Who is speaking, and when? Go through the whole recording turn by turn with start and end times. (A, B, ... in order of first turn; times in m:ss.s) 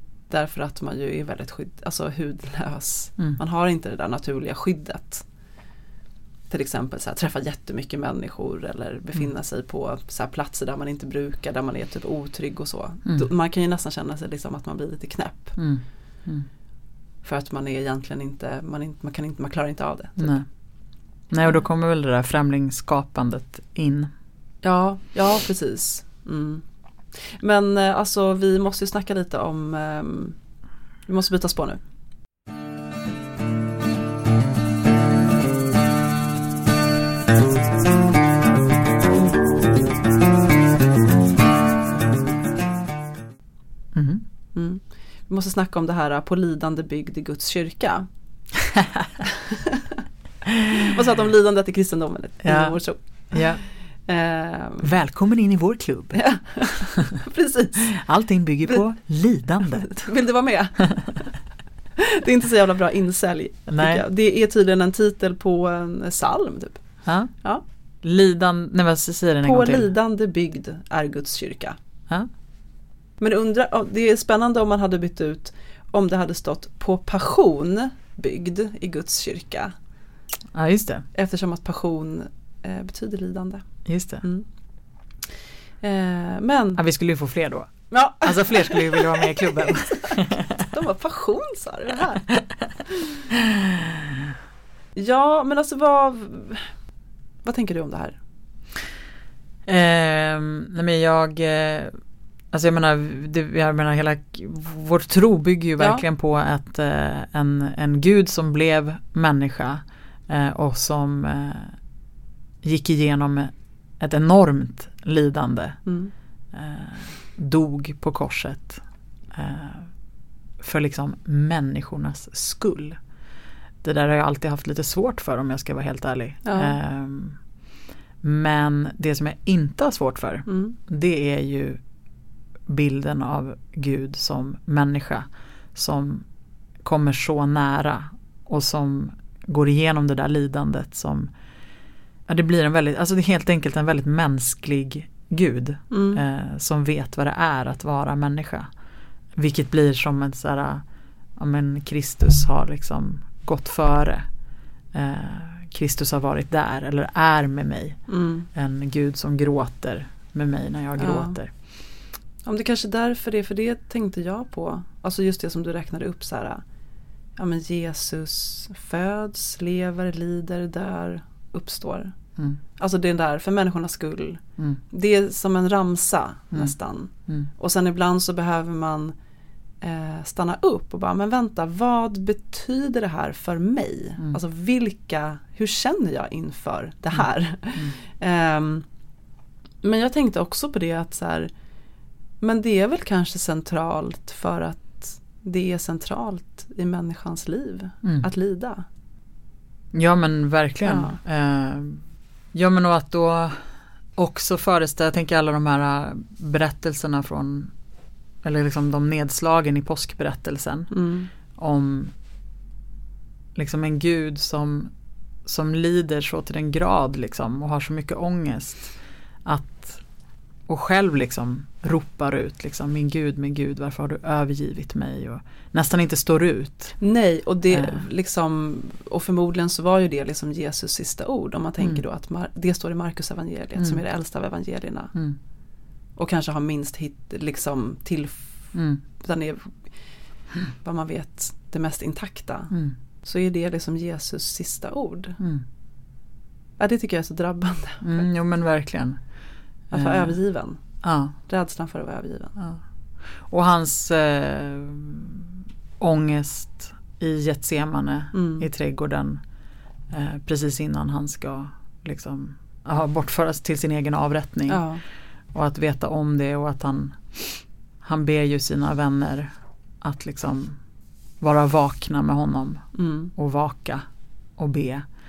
0:00.3-0:05.2 A
0:06.5-0:15.6 A
0:15.6-0:16.5 B
0:17.2-0:20.4 A
0:20.2-0:20.5 B
0:21.3-0:24.1 B
0:24.6-0:30.4 A
0:31.0-0:31.8 A
0:43.9-0:44.2 B
0:44.5-0:48.1 A
0:48.6-0:49.2 B
0:49.2-0:50.0 A
0:50.5-0:50.9 B
0:50.7-0:53.5 A
0:52.4-0:52.8 B
0:53.3-0:53.6 B
0:54.0-0:54.9 A
0:54.8-0:56.2 B
0:56.1-0:57.9 A
0:56.9-0:57.2 B
0:57.8-1:00.1 B
0:59.6-1:01.3 A
1:00.9-1:01.1 B
1:02.0-1:06.8 A
1:03.7-1:04.0 B
1:07.0-1:07.3 B
1:08.0-1:09.9 B
1:09.4-1:11.8 A
1:13.2-1:19.7 A
1:20.5-1:21.0 B
1:21.1-1:23.6 A
1:23.8-1:24.2 B
1:25.8-1:26.8 A
1:26.8-1:30.7 B
1:27.9-1:32.3 A
1:32.3-1:32.8 B
1:32.9-1:33.2 A
1:33.3-1:34.2 B
1:34.9-1:36.7 A
1:37.4-1:38.2 A
1:39.6-1:42.0 B
1:42.5-1:51.8 B
1:45.8-1:46.0 A
1:52.6-1:55.8 B
1:55.8-1:56.1 A
1:56.5-1:58.8 B
1:59.3-1:59.9 B
2:00.6-2:03.0 B
2:03.8-2:07.4 B
2:06.4-2:06.7 A
2:08.2-2:11.8 B
2:10.5-2:10.8 A
2:12.7-2:16.2 B
2:16.8-2:21.3 B
2:22.3-2:28.7 B
2:25.9-2:26.2 A
2:29.4-2:30.8 B
2:31.4-2:34.2 B
2:34.9-2:38.0 B
2:38.1-2:38.5 A
2:38.5-2:41.5 B
2:41.0-2:41.4 A
2:42.4-2:46.6 A
2:47.4-2:52.1 A
2:52.8-2:59.1 A
2:59.8-3:08.8 A
3:09.8-3:11.5 A
3:12.4-3:18.8 A
3:18.0-3:18.3 B
3:19.9-3:22.0 B
3:20.8-3:21.2 A
3:22.5-3:23.6 B
3:24.2-3:27.7 B
3:28.4-3:30.9 B
3:30.9-3:31.3 A
3:31.5-3:32.1 B
3:33.5-3:34.9 B
3:35.4-3:38.9 B
3:39.4-3:40.0 B
3:40.7-3:47.0 B
3:47.0-3:55.1 A
3:47.7-3:48.0 B
3:53.8-3:54.0 B
3:56.2-3:58.5 A
3:58.7-3:59.0 B
3:59.2-3:59.8 A
4:00.8-4:02.7 A
4:02.7-4:03.0 B
4:03.2-4:05.4 A
4:05.4-4:05.6 B
4:06.8-4:08.2 A
4:08.0-4:09.2 B
4:09.9-4:10.8 A
4:09.9-4:10.4 B
4:11.0-4:11.3 B
4:11.5-4:12.5 A
4:13.4-4:15.5 B
4:16.0-4:19.4 B
4:18.3-4:18.6 A
4:20.1-4:24.8 B
4:24.7-4:25.0 A
4:25.5-4:29.5 B
4:30.0-4:30.8 B
4:31.4-4:32.8 B
4:32.9-4:33.3 A
4:33.4-4:34.0 B
4:34.6-4:35.0 B